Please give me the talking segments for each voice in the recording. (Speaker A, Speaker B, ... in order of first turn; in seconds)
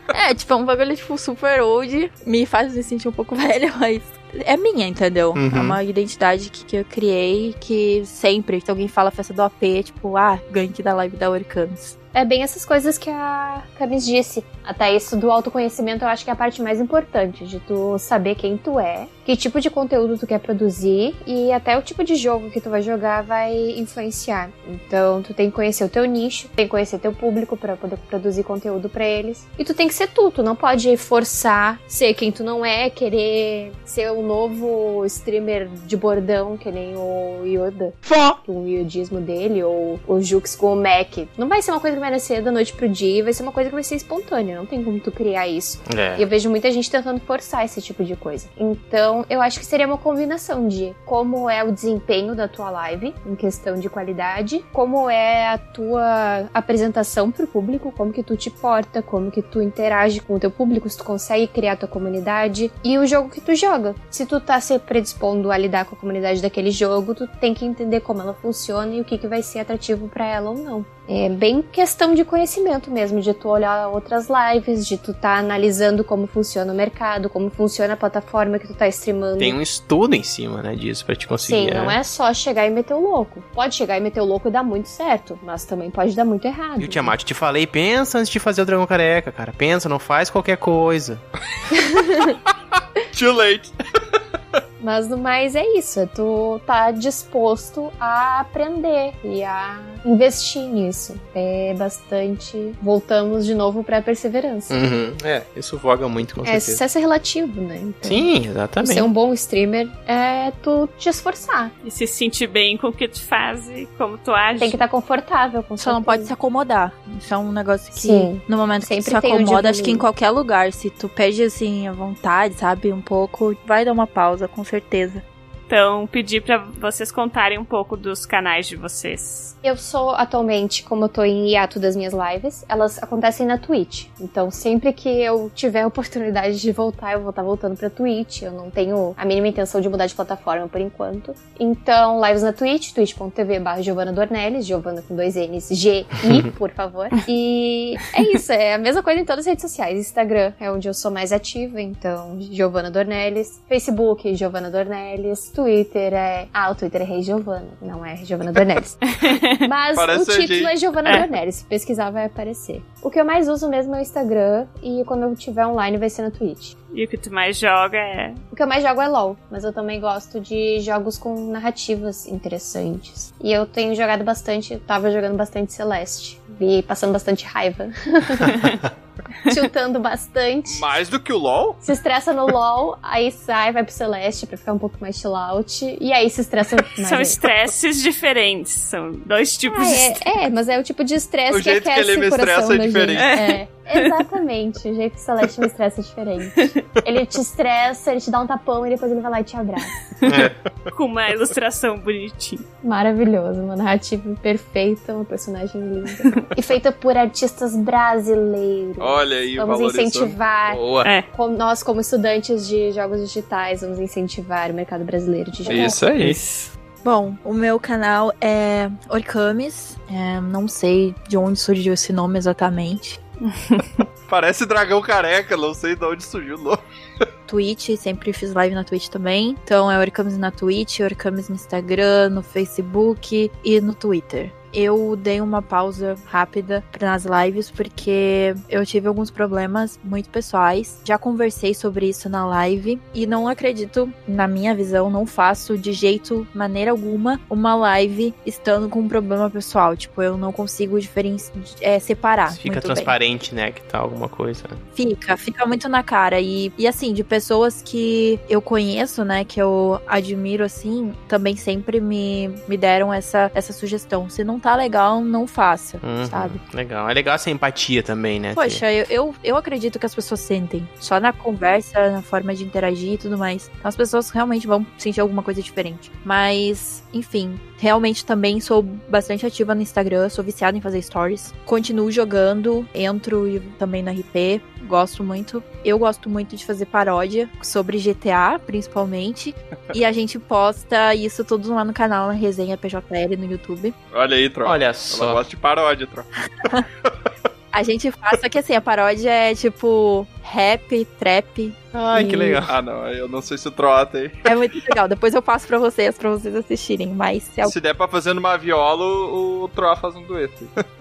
Speaker A: 0.1-11.9, 115.8-125.2, 217.0-223.2, 227.5-253.1, 254.9-266.6, 268.5-293.9, 297.7-302.7, 304.4-307.7
Speaker B: 5.4-5.8, 45.9-46.2, 79.4-82.0, 86.8-91.2, 104.7-106.8, 108.0-109.1, 200.3-200.5, 210.7-211.1, 252.5-254.8, 266.0-268.9, 294.6-295.4, 301.9-302.7
Speaker C: 12.2-79.6, 81.4-87.1, 91.8-92.3, 94.8-104.8, 106.4-108.3, 108.8-111.7, 114.6-116.3, 118.0-120.0, 129.6-159.0, 159.6-166.7, 168.5-178.5, 179.5-180.8, 181.8-187.4, 189.7-200.1, 202.8-216.0
Speaker D: 93.1-93.7, 159.9-160.7, 180.7-181.8, 191.5-193.3, 209.0-210.4, 215.7-216.6, 224.3-226.8, 294.1-296.3, 302.7-304.3, 307.6-310.7
Speaker E: 111.8-114.8, 125.7-129.6, 159.1-159.7, 166.9-168.4, 187.0-190.2, 193.2-194.1, 196.6-196.8, 200.2-202.7, 223.6-224.0